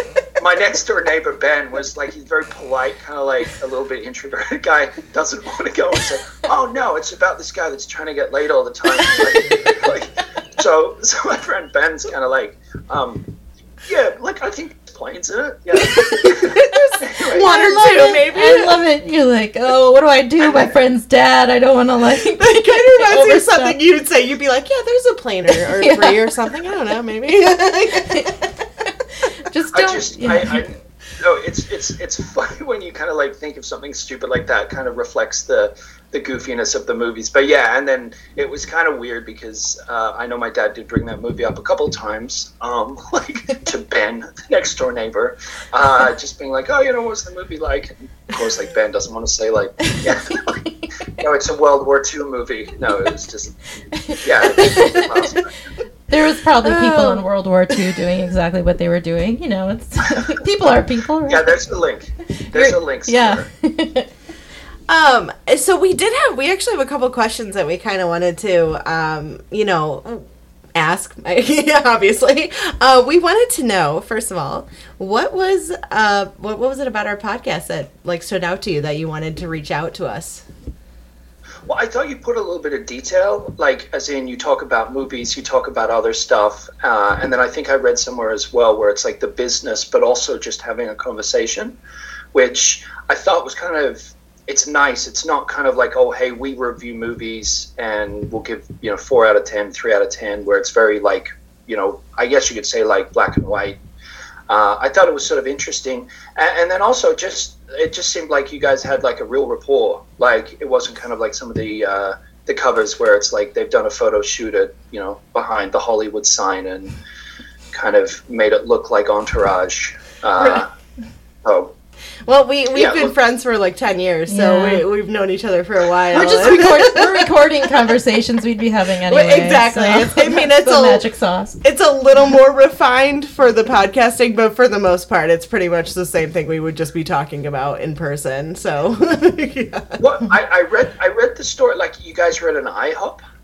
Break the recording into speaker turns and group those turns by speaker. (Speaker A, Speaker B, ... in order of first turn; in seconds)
Speaker A: 0.4-13.3, 13.8-17.5, 20.4-20.7, 29.7-50.6, 51.2-53.5, 54.2-55.5, 61.3-63.5, 81.7-91.8, 92.3-103.8, 104.5-116.9, 117.7-120.7, 121.4-121.7, 122.7-123.1, 140.0-143.2
Speaker B: 15.9-18.8, 22.4-28.5, 56.6-57.2, 64.9-80.5, 122.3-127.3, 129.1-131.1, 131.6-140.0
Speaker C: 17.4-23.8, 25.5-26.2, 27.9-28.3, 29.2-30.6, 49.9-50.9, 54.0-55.3, 56.1-61.5, 62.5-64.1, 124.3-124.8, 126.1-131.6